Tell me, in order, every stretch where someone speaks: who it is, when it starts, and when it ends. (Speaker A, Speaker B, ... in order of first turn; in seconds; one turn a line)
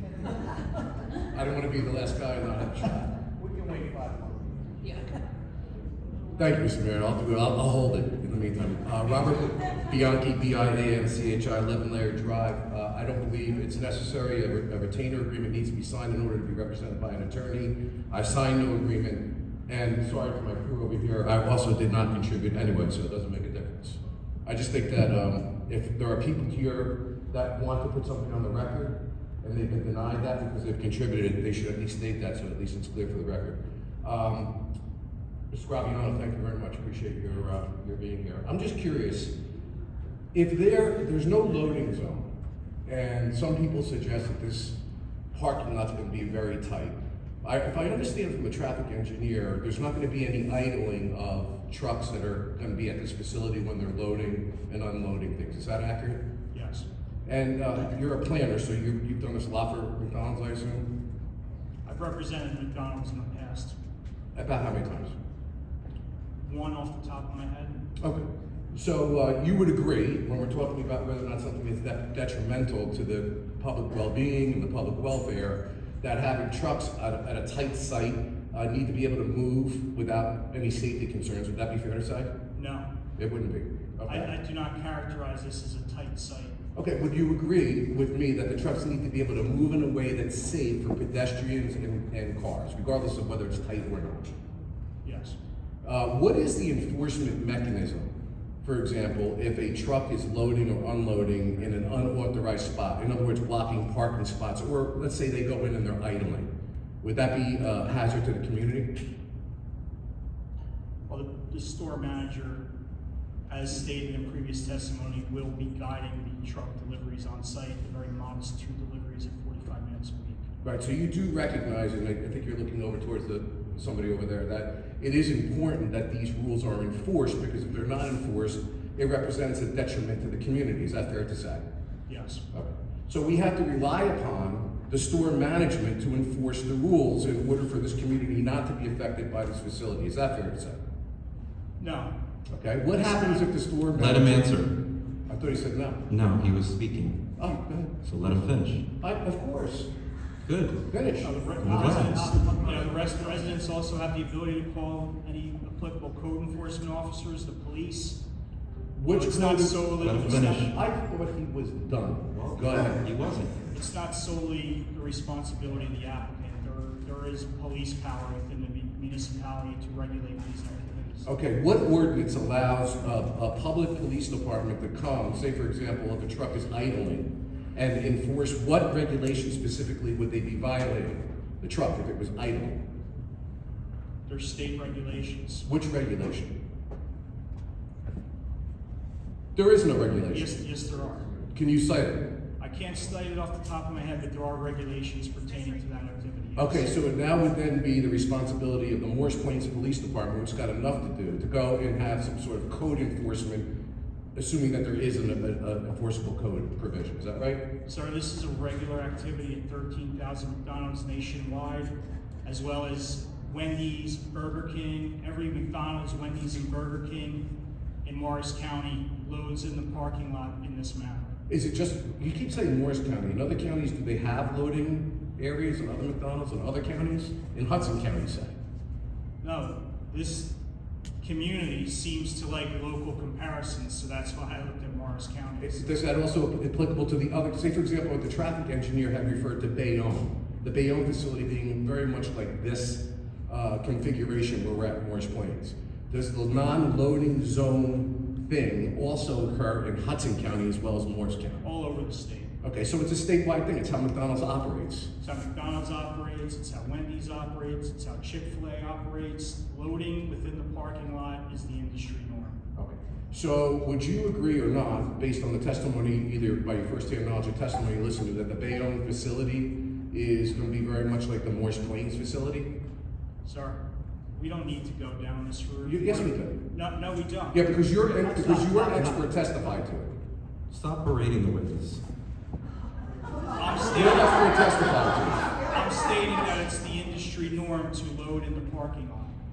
Speaker A: 1.2-3.2
Speaker B: 3.4-4.7
Speaker A: 6.4-34.5
Speaker A: 35.5-39.3
Speaker A: 40.3-42.3
Speaker A: 42.9-44.8
Speaker A: 45.3-56.2
Speaker C: 56.5-56.9
Speaker A: 57.2-60.9
Speaker C: 61.8-63.8
Speaker A: 64.3-65.1
Speaker C: 66.4-67.8
Speaker A: 68.0-82.3
Speaker C: 82.5-82.9
Speaker A: 83.2-84.3
Speaker C: 84.1-86.5
Speaker A: 86.7-94.3
Speaker C: 95.0-95.4
Speaker A: 95.8-98.1
Speaker A: 98.6-106.5
Speaker A: 107.0-108.9
Speaker C: 111.1-112.6
Speaker C: 113.5-120.5
Speaker A: 120.6-131.6
Speaker C: 132.1-132.4
Speaker A: 132.5-140.8
Speaker C: 141.8-142.1
Speaker A: 142.5-144.6
Speaker C: 142.9-143.5
Speaker D: 143.9-144.8
Speaker A: 145.3-146.1
Speaker D: 146.1-147.2
Speaker A: 147.4-148.4
Speaker D: 148.0-148.8
Speaker A: 149.0-149.9
Speaker D: 150.4-150.8
Speaker A: 150.9-151.3
Speaker C: 151.2-158.2
Speaker D: 151.6-152.2
Speaker B: 151.6-153.4
Speaker A: 158.9-163.0
Speaker C: 159.1-160.7
Speaker D: 160.0-160.7
Speaker D: 162.3-163.7
Speaker C: 163.7-171.3
Speaker A: 171.2-182.8
Speaker C: 184.3-185.7
Speaker A: 185.7-186.5
Speaker A: 189.5-190.5
Speaker C: 190.3-191.3
Speaker A: 191.5-192.2
Speaker C: 192.6-196.9
Speaker A: 196.6-203.7
Speaker A: 204.3-207.6
Speaker C: 207.8-211.9
Speaker C: 212.4-217.4
Speaker C: 218.0-221.3
Speaker A: 221.5-228.6
Speaker C: 229.4-230.5
Speaker C: 231.2-235.9
Speaker A: 235.6-251.7
Speaker C: 251.6-252.5
Speaker A: 252.6-255.1
Speaker C: 255.2-262.6
Speaker A: 262.8-272.7
Speaker C: 273.4-273.8
Speaker C: 274.3-278.4
Speaker A: 275.8-276.6
Speaker A: 277.5-280.1
Speaker B: 278.4-279.1
Speaker D: 280.7-282.0
Speaker C: 283.5-284.7
Speaker A: 283.9-285.4
Speaker C: 285.6-289.4